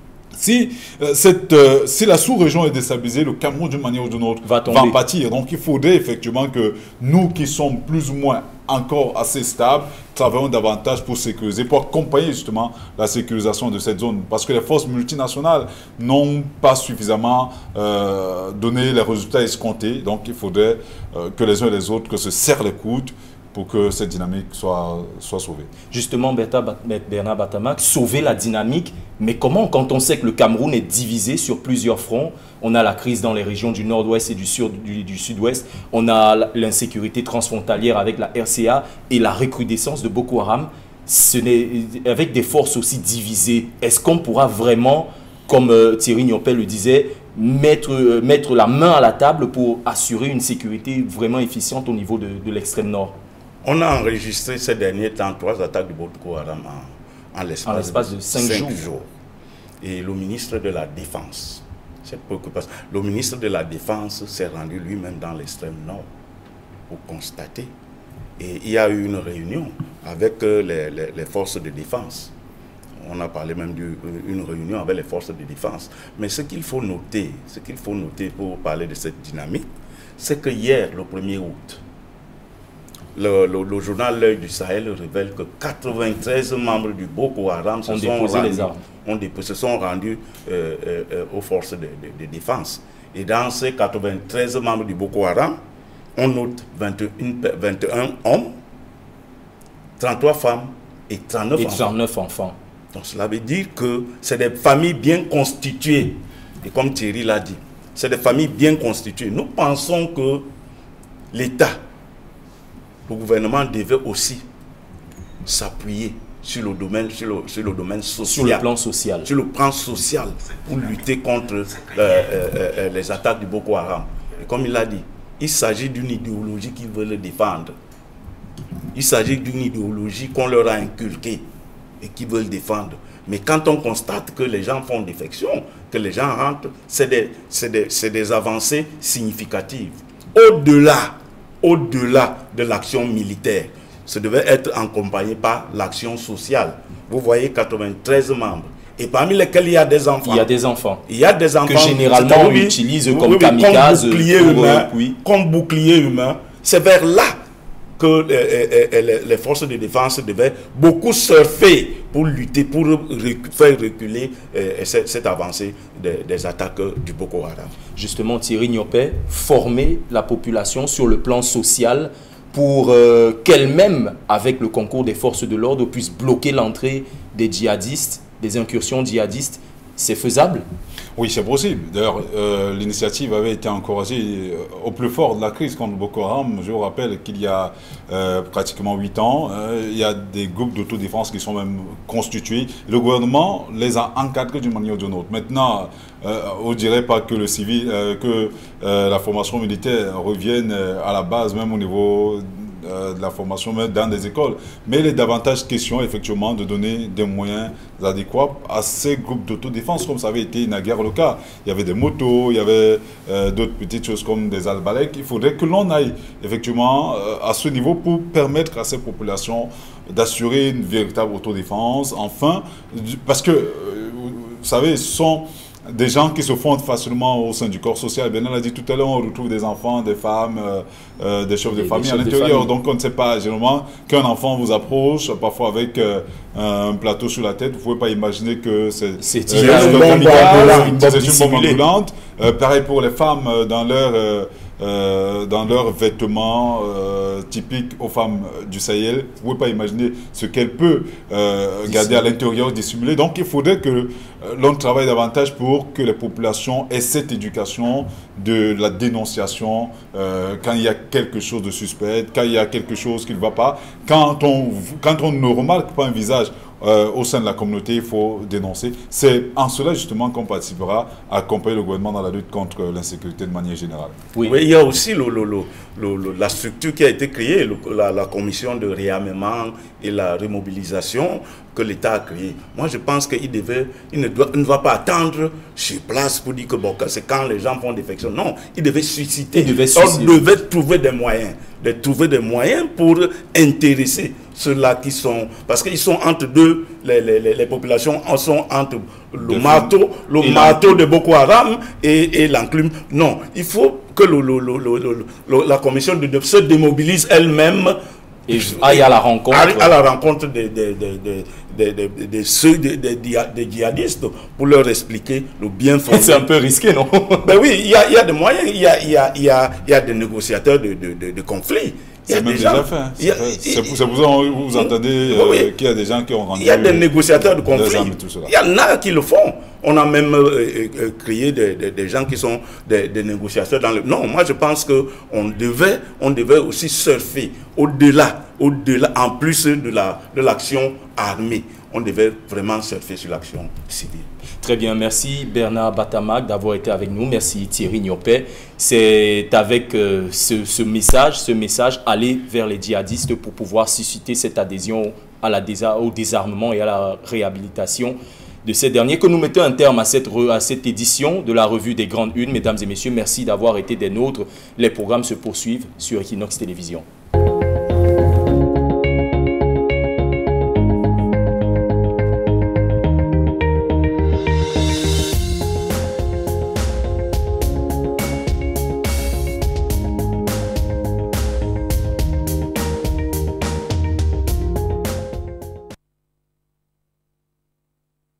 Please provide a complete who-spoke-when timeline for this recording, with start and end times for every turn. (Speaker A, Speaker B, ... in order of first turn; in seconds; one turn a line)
Speaker A: 0.3-25.7
Speaker B: 4.4-5.0
Speaker B: 25.9-53.1
Speaker C: 53.6-59.1
Speaker B: 57.6-58.9
Speaker C: 59.8-66.1
Speaker C: 66.9-67.7
Speaker C: 68.4-72.3
Speaker C: 73.0-79.7
Speaker C: 80.2-81.8
Speaker C: 83.1-95.6
Speaker B: 87.9-88.8
Speaker C: 96.2-98.5
Speaker C: 100.0-101.9
Speaker B: 101.6-102.5
Speaker C: 102.9-110.5
Speaker C: 111.3-111.8
Speaker C: 113.1-114.4
Speaker C: 115.4-118.6
Speaker B: 118.2-119.3
Speaker C: 119.2-127.7
Speaker C: 128.9-131.4
Speaker C: 132.0-150.5
Speaker B: 150.2-151.0
Speaker C: 151.1-157.3
Speaker B: 151.6-155.2
Speaker C: 158.0-167.7
Speaker B: 167.9-180.7
Speaker A: 181.2-274.2
Speaker B: 231.7-232.7
Speaker B: 239.2-241.8
Speaker C: 239.5-241.0
Speaker B: 251.9-252.2
Speaker C: 274.4-308.0
Speaker B: 289.5-290.4
Speaker A: 299.4-299.9
Speaker B: 300.4-301.0
Speaker B: 308.5-309.9
Speaker C: 308.5-316.5
Speaker B: 316.1-317.5
Speaker C: 317.4-324.0
Speaker A: 322.3-327.1
Speaker C: 324.7-325.7
Speaker C: 326.6-344.3
Speaker A: 327.6-328.5
Speaker B: 344.6-367.1